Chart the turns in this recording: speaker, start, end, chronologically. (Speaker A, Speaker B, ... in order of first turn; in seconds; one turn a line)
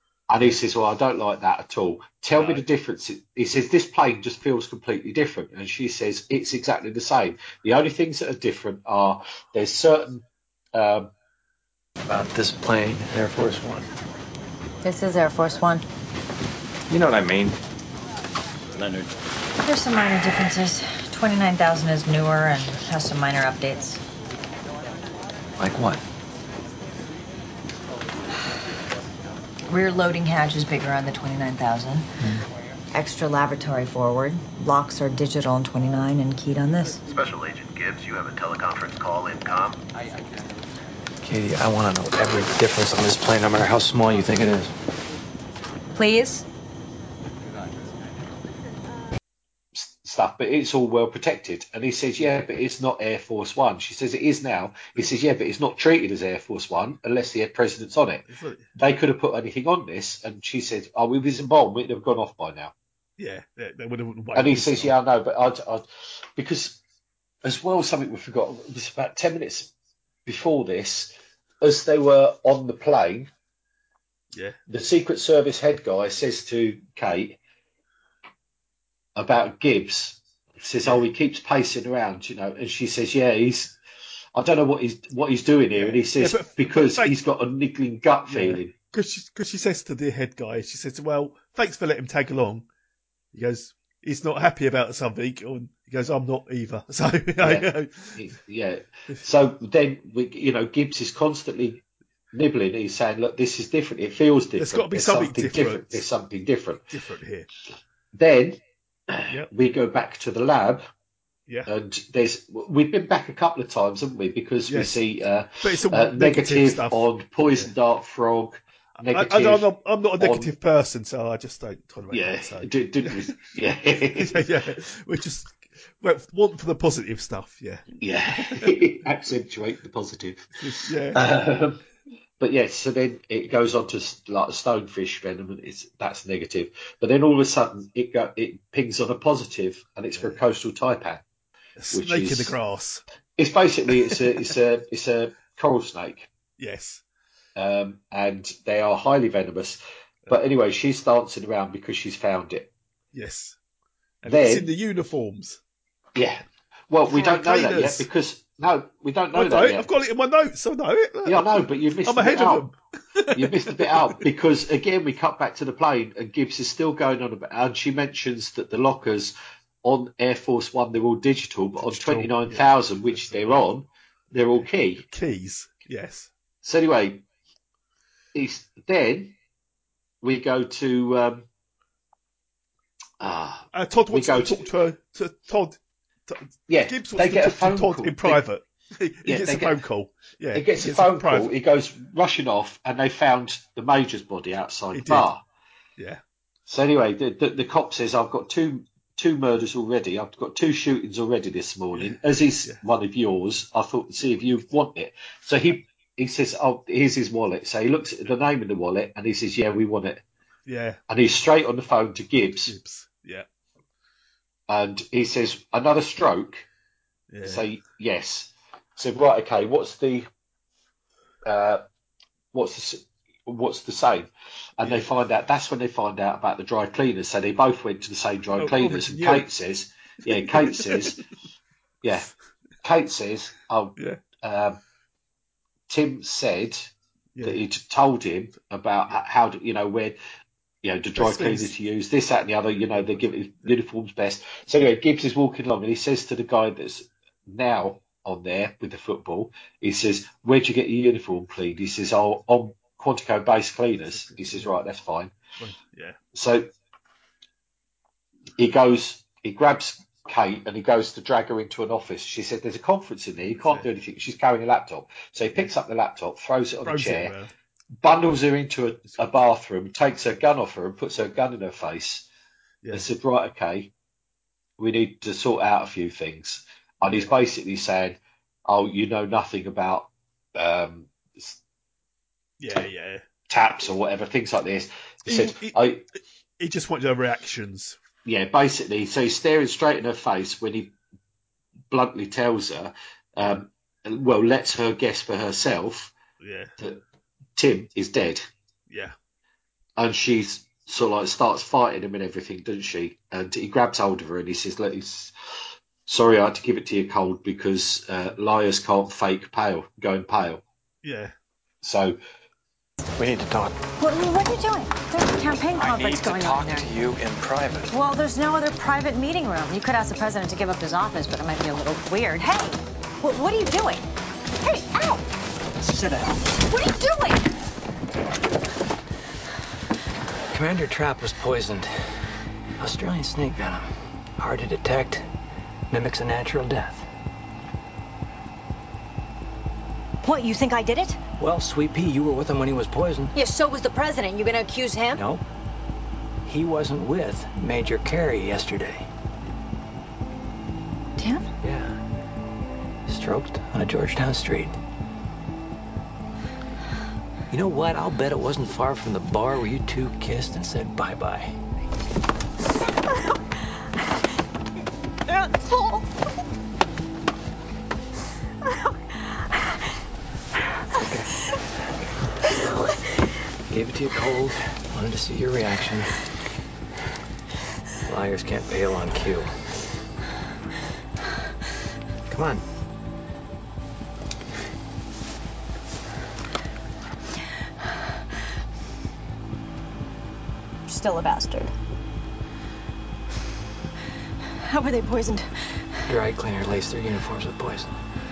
Speaker A: 0.3-11.1
Speaker B: 2.4-2.6
Speaker C: 12.1-13.9
Speaker D: 14.8-15.8
Speaker C: 16.9-17.6
Speaker C: 18.8-19.1
Speaker D: 19.6-24.0
Speaker C: 25.6-26.0
Speaker D: 29.7-32.1
Speaker D: 32.9-37.0
Speaker E: 37.1-39.8
Speaker C: 41.2-44.7
Speaker D: 45.9-46.4
Speaker A: 49.7-62.7
Speaker B: 58.3-58.7
Speaker B: 63.2-64.9
Speaker A: 64.3-66.8
Speaker A: 67.4-69.7
Speaker A: 70.2-73.3
Speaker B: 74.3-74.6
Speaker A: 74.7-77.4
Speaker A: 79.2-83.8
Speaker A: 84.3-88.7
Speaker B: 85.7-87.2
Speaker B: 88.3-92.7
Speaker B: 93.3-98.2
Speaker A: 97.4-106.8
Speaker B: 104.6-106.0
Speaker B: 106.9-107.5
Speaker A: 108.1-110.8
Speaker A: 111.7-120.5
Speaker B: 114.7-115.0
Speaker B: 115.6-117.7
Speaker B: 119.0-123.4
Speaker A: 122.1-124.5
Speaker B: 124.1-128.7
Speaker A: 128.0-130.6
Speaker B: 130.6-131.2
Speaker A: 131.1-131.8
Speaker A: 132.4-141.2
Speaker B: 141.8-143.0
Speaker A: 141.9-142.6
Speaker A: 143.4-146.3
Speaker B: 146.6-147.0
Speaker A: 147.6-152.7
Speaker B: 153.1-153.6
Speaker B: 154.2-155.6
Speaker A: 154.2-154.7
Speaker A: 156.1-159.9
Speaker B: 157.1-158.1
Speaker B: 159.3-164.2
Speaker A: 161.2-162.7
Speaker A: 163.3-175.0
Speaker B: 171.8-173.6
Speaker B: 174.6-176.3
Speaker A: 176.6-177.2
Speaker A: 178.3-179.3
Speaker A: 180.2-181.5
Speaker A: 183.2-184.7
Speaker B: 183.7-191.5
Speaker A: 186.7-188.4
Speaker A: 189.2-189.8
Speaker A: 190.5-195.4
Speaker B: 194.9-195.3
Speaker A: 196.7-210.2
Speaker B: 201.9-202.8
Speaker B: 210.7-211.0
Speaker A: 211.1-212.7
Speaker B: 212.7-213.4
Speaker A: 214.7-216.7
Speaker B: 217.3-217.7
Speaker A: 217.4-220.3
Speaker A: 221.4-221.8
Speaker A: 222.5-231.2
Speaker B: 224.8-225.1
Speaker B: 228.6-229.5
Speaker B: 230.3-231.2
Speaker A: 232.0-232.3
Speaker A: 232.8-234.8
Speaker A: 235.9-240.2
Speaker B: 237.3-237.6
Speaker A: 240.8-255.3
Speaker B: 241.2-241.7
Speaker B: 242.9-243.7
Speaker B: 254.1-254.8
Speaker B: 255.6-256.2
Speaker A: 256.3-256.7
Speaker A: 258.6-267.3
Speaker B: 263.6-263.9
Speaker B: 266.8-267.5
Speaker A: 268.0-272.3
Speaker A: 272.9-273.9
Speaker A: 274.8-281.6
Speaker B: 282.6-283.2
Speaker A: 283.5-286.0
Speaker B: 285.2-285.8
Speaker B: 286.6-288.0
Speaker A: 288.2-290.9
Speaker A: 291.9-296.1
Speaker B: 296.4-296.7
Speaker A: 297.6-298.4
Speaker B: 298.9-299.1
Speaker A: 300.0-305.3
Speaker A: 306.1-310.6
Speaker B: 311.0-311.3
Speaker A: 311.8-312.2
Speaker C: 313.2-313.7
Speaker D: 314.0-316.9
Speaker C: 315.7-317.9
Speaker D: 317.9-324.1
Speaker D: 324.6-325.3
Speaker F: 325.8-326.4
Speaker D: 326.5-327.4
Speaker F: 330.5-331.9
Speaker F: 332.8-335.3
Speaker F: 335.9-337.1
Speaker D: 340.2-341.2
Speaker F: 341.4-343.3
Speaker D: 343.3-345.2
Speaker F: 345.1-345.4
Speaker F: 346.4-349.1
Speaker D: 351.2-351.5
Speaker F: 351.6-351.9
Speaker F: 353.1-354.8
Speaker F: 357.5-361.5
Speaker D: 365.3-366.0
Speaker F: 371.0-371.3
Speaker F: 373.7-376.1
Speaker F: 378.1-379.5
Speaker F: 382.3-382.6
Speaker D: 390.9-391.7
Speaker D: 394.6-395.5
Speaker F: 396.1-397.9